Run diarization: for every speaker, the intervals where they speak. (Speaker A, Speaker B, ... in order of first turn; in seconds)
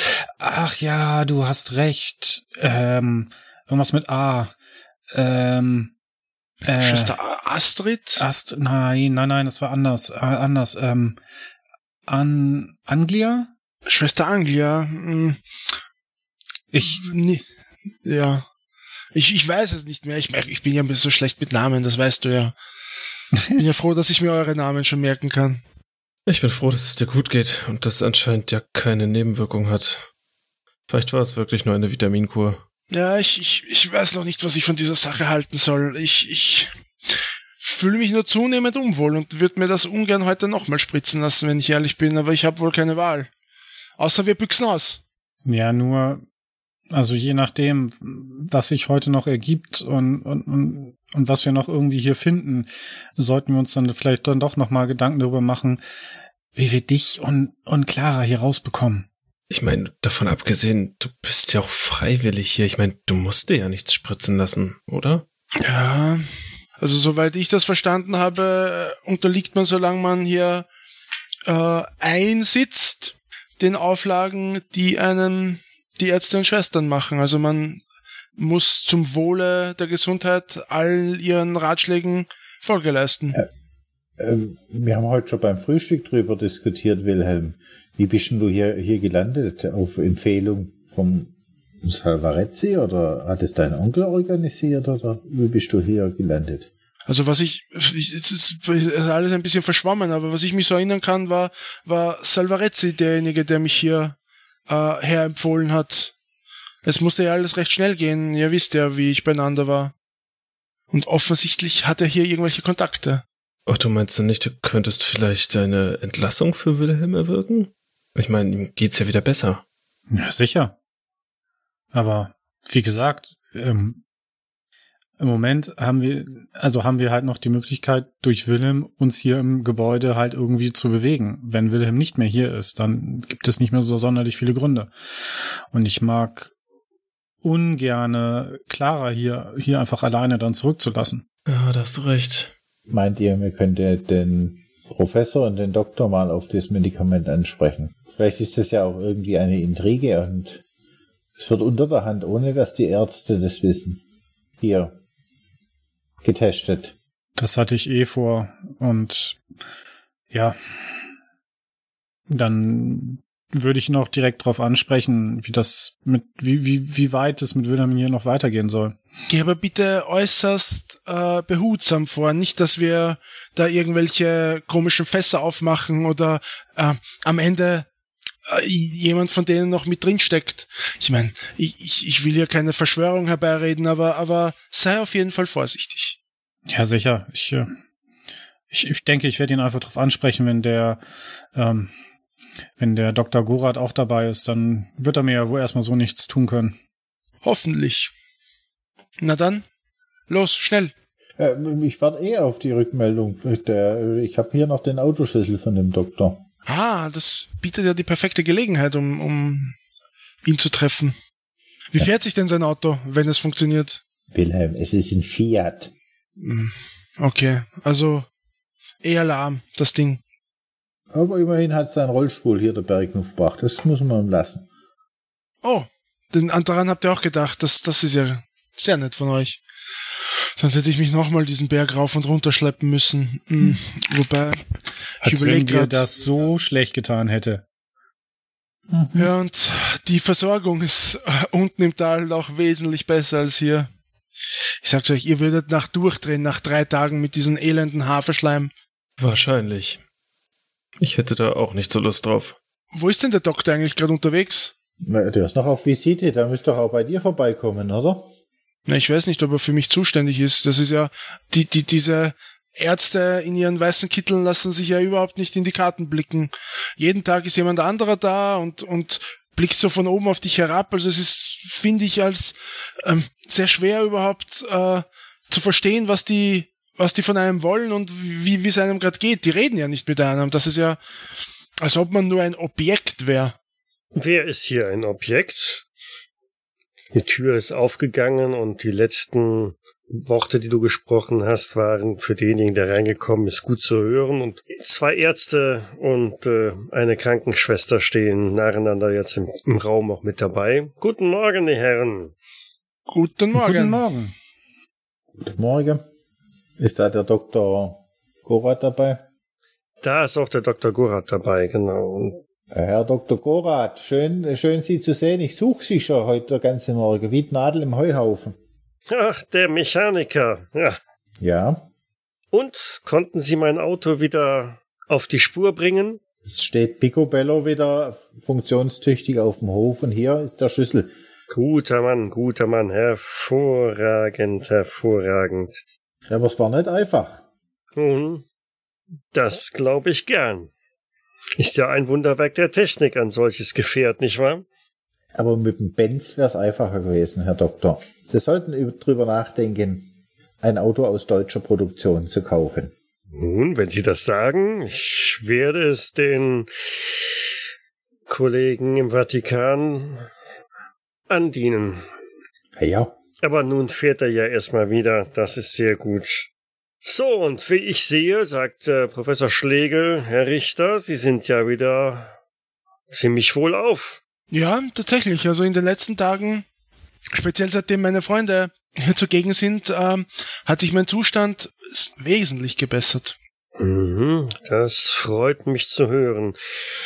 Speaker A: 0.2-4.5, 5.1-5.9, 6.7-7.2, 8.2-11.2, 12.1-13.5, 16.7-17.0, 45.5-46.2, 46.9-55.8, 56.5-59.1, 120.1-120.8, 121.9-124.0, 125.2-134.9, 135.7-136.5, 137.4-141.2, 157.4-159.4, 160.3-160.6, 162.3-169.0, 186.7-187.7, 188.7-191.0, 191.6-191.9, 192.8-196.8, 235.2-237.6, 303.5-304.3
Speaker B: 6.8-8.2, 13.9-15.4, 16.8-17.5, 18.1-18.5, 19.1-22.6, 23.5-25.6, 32.9-36.7, 37.6-43.3, 44.0-45.0, 65.6-70.7, 71.5-77.8, 78.4-83.4, 97.1-106.1, 106.8-109.9, 110.9-113.2, 169.3-177.9, 178.5-186.2, 197.4-198.1, 199.2-199.7, 200.3-200.9, 206.7-209.8, 210.4-211.2, 211.9-214.0, 216.4-218.3, 219.0-220.2, 225.6-229.6, 230.6-234.6, 235.2-236.0, 239.2-243.9, 244.8-248.7, 252.9-254.7, 258.9-281.0, 281.8-283.6, 303.1-304.0, 374.5-376.7, 377.3-383.4
Speaker C: 26.3-30.1, 30.9-32.6, 59.5-65.2, 113.7-119.6, 141.5-142.5, 249.2-250.0, 251.0-252.6
Speaker D: 84.2-96.7, 142.9-150.6, 151.4-154.0, 154.6-155.0, 156.2-156.9, 201.4-206.4, 214.3-215.9, 221.1-224.7, 238.9-239.3, 255.0-258.3, 305.4-306.0, 306.8-309.2, 312.7-318.6, 321.4-321.8, 326.4-331.1, 336.3-337.4, 345.3-350.1, 350.6-352.9, 362.8-363.1
Speaker E: 284.1-285.9, 287.1-302.3, 310.0-312.4, 319.1-321.0, 322.5-326.2, 331.5-335.8, 338.0-338.4, 339.3-340.7, 341.6-344.6, 353.3-357.2, 358.3-360.3, 361.3-362.1, 363.4-366.5, 367.0-372.3, 373.1-374.2, 383.8-386.6